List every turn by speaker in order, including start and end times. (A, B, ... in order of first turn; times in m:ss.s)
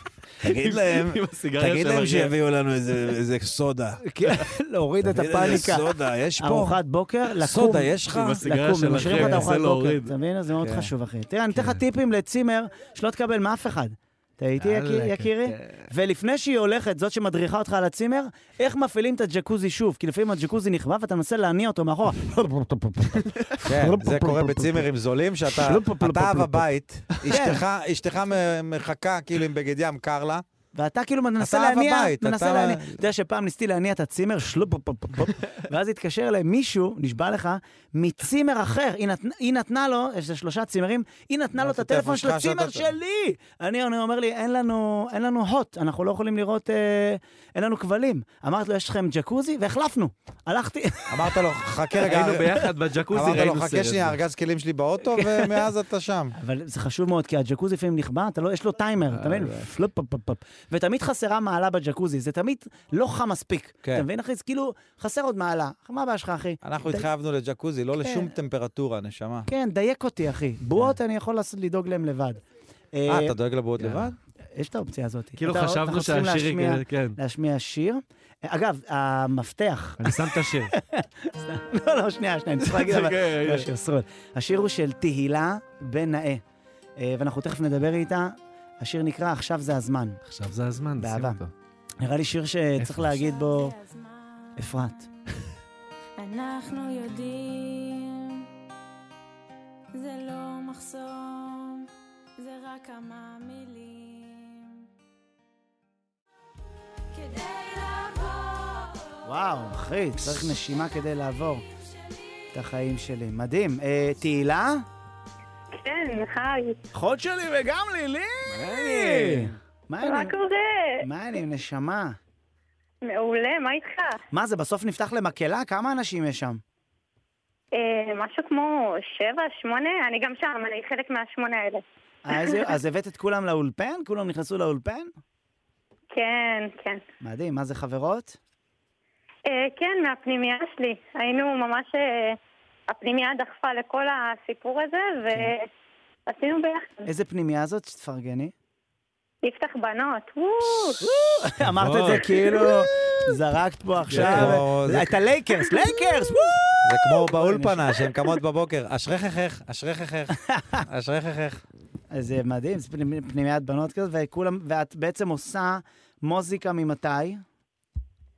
0:00.4-0:02.3 A
0:00.4-0:04.0 B
0:04.0-0:24.9 C
0:05.0-0:06.8 B
0:07.4-0:08.4 B
0:08.0-0:10.1 A
0:09.0-0:09.5 B
0:10.6-0:10.9 B
0:11.5-0:11.8 A
0:14.6-0:15.9 A
0:23.2-0:23.5 A
0:23.6-0:30.4 B
0:25.5-0:26.6 C
0:27.3-0:27.6 C
0:30.7-0:51.7 C
0:31.4-0:33.0 B
0:41.6-0:42.9 B
0:51.1-0:56.3 B
0:52.0-0:54.2 A
0:55.1-0:55.5 C
0:56.3-1:07.1 C
0:59.1-0:59.7 A
1:06.6-1:09.5 B
1:08.0-1:08.3 C
1:09.5-1:12.4 C
1:12.9-1:13.3 C
1:13.1-1:14.2 B
1:13.8-1:14.1 A
1:14.5-1:26.4 C
1:15.4-1:17.2 A
1:20.0-1:20.7 A
1:22.6-1:23.7 A
1:27.0-1:30.2 C
1:30.2-1:31.5 A
1:31.0-1:31.4 C
1:32.0-1:33.8 C
1:32.8-1:33.3 A
1:33.4-1:34.5 D
1:34.6-1:35.1 C
1:36.2-1:38.4 D
1:40.0-1:41.9 D
1:42.4-1:44.7 D
1:47.1-1:49.1 D
1:49.2-1:51.6 C
1:52.5-1:54.8 C
1:55.7-1:56.8 E
1:56.9-2:00.4 C
1:58.5-1:59.6 A
2:00.0-2:01.0 E
2:01.0-2:02.2 C
2:03.0-2:04.2 E
2:04.3-2:06.6 C
2:07.7-2:11.8 E
2:12.2-2:15.1 C
2:16.1-2:17.0 E
2:17.2-2:18.4 C
2:19.5-2:22.4 E
2:22.9-2:25.6 E
2:26.3-2:27.1 E
2:27.0-2:28.5 C
2:29.4-2:31.0 E
2:31.0-2:38.0 C
2:31.6-2:32.7 A
2:34.1-2:34.6 A
2:34.1-2:35.2 B
2:36.8-2:41.6 B
2:42.1-2:47.4 C